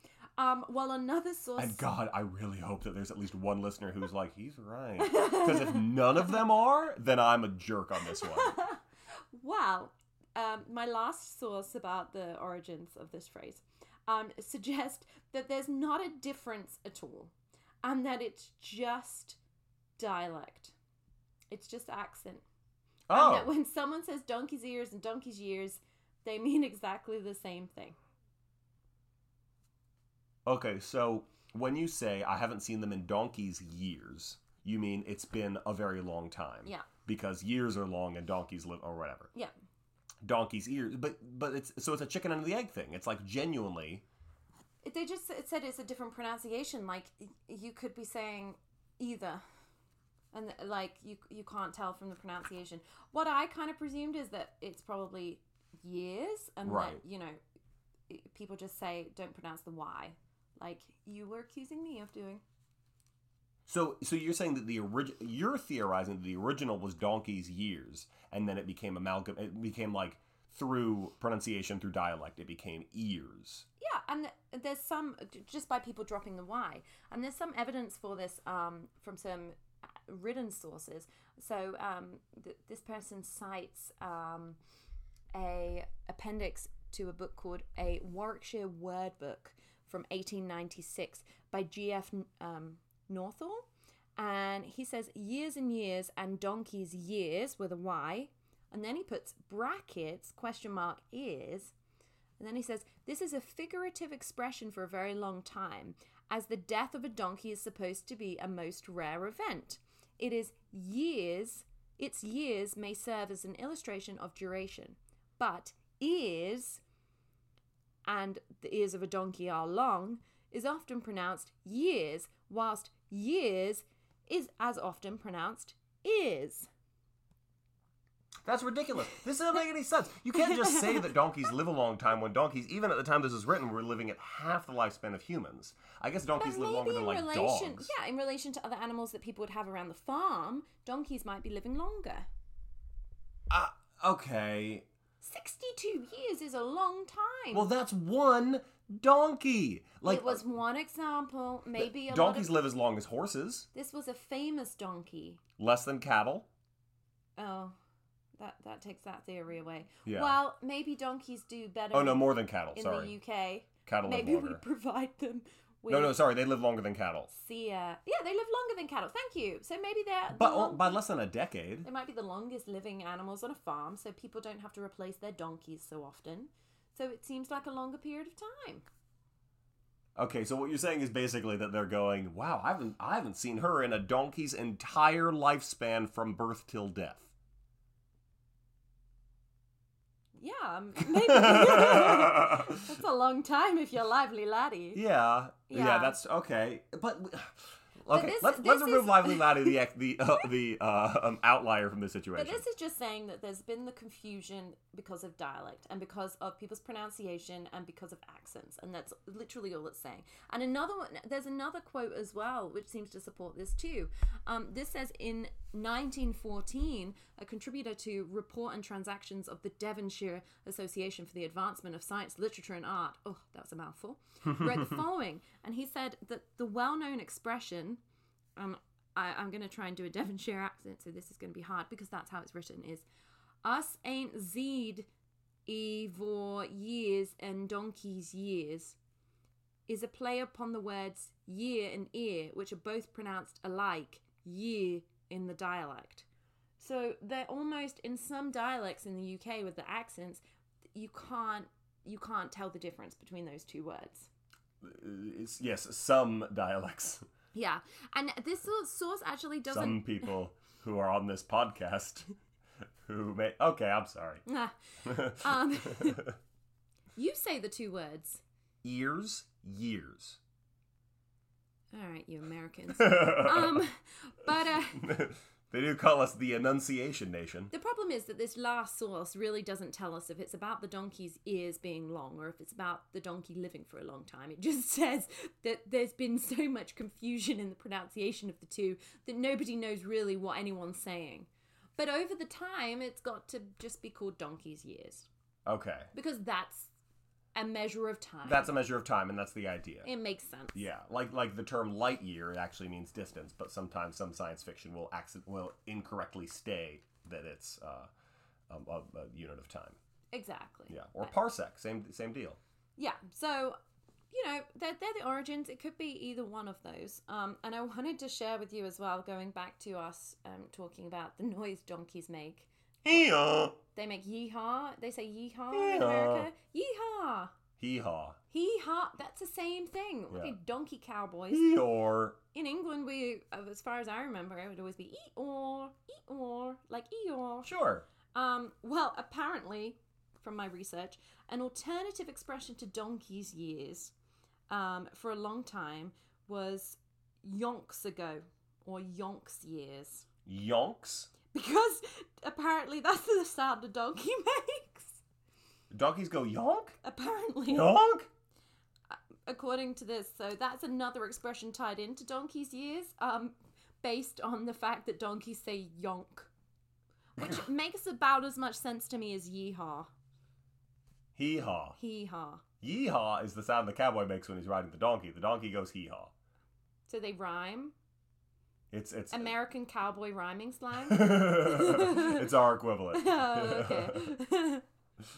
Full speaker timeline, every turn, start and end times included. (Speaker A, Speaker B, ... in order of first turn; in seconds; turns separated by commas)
Speaker A: 0.4-1.8, Speaker B: 1.6-8.6, Speaker A: 5.0-5.9, Speaker A: 8.1-8.8, Speaker A: 9.3-17.3, Speaker A: 17.8-19.4, Speaker A: 20.0-20.7, Speaker A: 21.5-22.4, Speaker B: 23.1-23.5, Speaker A: 23.1-28.0, Speaker B: 30.5-39.3, Speaker B: 40.2-44.0, Speaker A: 44.8-49.4, Speaker A: 50.3-57.4, Speaker B: 56.6-57.0, Speaker A: 58.1-62.4, Speaker B: 63.7-73.7, Speaker A: 73.8-84.6, Speaker A: 85.3-101.7, Speaker A: 102.4-116.8, Speaker A: 118.1-126.7, Speaker B: 128.4-137.9, Speaker A: 130.5-131.2, Speaker A: 136.4-142.3, Speaker B: 143.5-144.9, Speaker A: 145.2-147.7, Speaker B: 147.5-150.4, Speaker A: 150.0-152.6, Speaker B: 151.8-153.7, Speaker A: 153.7-155.4, Speaker B: 155.6-156.5, Speaker A: 157.4-157.7, Speaker A: 158.4-166.2, Speaker B: 160.1-160.4, Speaker B: 161.9-163.2, Speaker B: 163.9-164.6, Speaker B: 165.9-167.3, Speaker A: 167.3-171.0, Speaker B: 170.3-171.9, Speaker A: 171.8-178.8, Speaker B: 180.2-187.3, Speaker A: 190.4-195.0, Speaker B: 191.0-192.8, Speaker B: 194.9-202.6, Speaker A: 195.7-196.2, Speaker A: 198.1-199.8, Speaker A: 202.4-228.0, Speaker B: 224.6-224.9, Speaker A: 228.6-233.1, Speaker A: 233.6-235.1, Speaker A: 235.7-239.0, Speaker A: 239.9-246.3, Speaker A: 246.8-250.4, Speaker A: 250.9-254.3, Speaker B: 254.8-257.2, Speaker A: 257.5-260.3, Speaker B: 259.7-262.3, Speaker B: 263.1-264.4, Speaker A: 264.5-266.3, Speaker B: 265.0-266.3, Speaker A: 267.2-268.4, Speaker B: 268.8-270.4, Speaker A: 271.9-275.1, Speaker B: 273.0-273.9, Speaker B: 275.0-277.7, Speaker A: 277.7-295.3, Speaker B: 295.7-296.1, Speaker A: 296.1-296.9, Speaker A: 297.6-298.8, Speaker B: 298.4-300.1, Speaker A: 300.0-300.8, Speaker B: 300.7-308.1, Speaker B: 308.7-310.0, Speaker A: 310.3-311.3, Speaker B: 310.9-312.6, Speaker A: 313.0-313.8, Speaker A: 314.3-323.2, Speaker B: 323.1-323.8, Speaker A: 323.9-327.5, Speaker B: 325.7-326.5, Speaker B: 327.8-328.4, Speaker A: 328.5-331.8, Speaker B: 330.3-330.6, Speaker B: 331.5-332.4, Speaker A: 332.5-337.7, Speaker B: 337.6-338.1, Speaker A: 338.3-344.1, Speaker A: 344.7-350.3, Speaker B: 350.5-351.3, Speaker A: 351.5-355.2, Speaker B: 355.9-357.0, Speaker A: 357.0-358.0, Speaker B: 357.7-358.3, Speaker A: 359.1-366.5, Speaker A: 367.4-370.1, Speaker B: 371.4-372.0, Speaker A: 372.0-372.6, Speaker B: 372.8-376.3, Speaker A: 377.1-377.9, Speaker B: 378.9-379.5, Speaker A: 379.3-382.5, Speaker B: 381.1-384.3, Speaker A: 383.1-384.8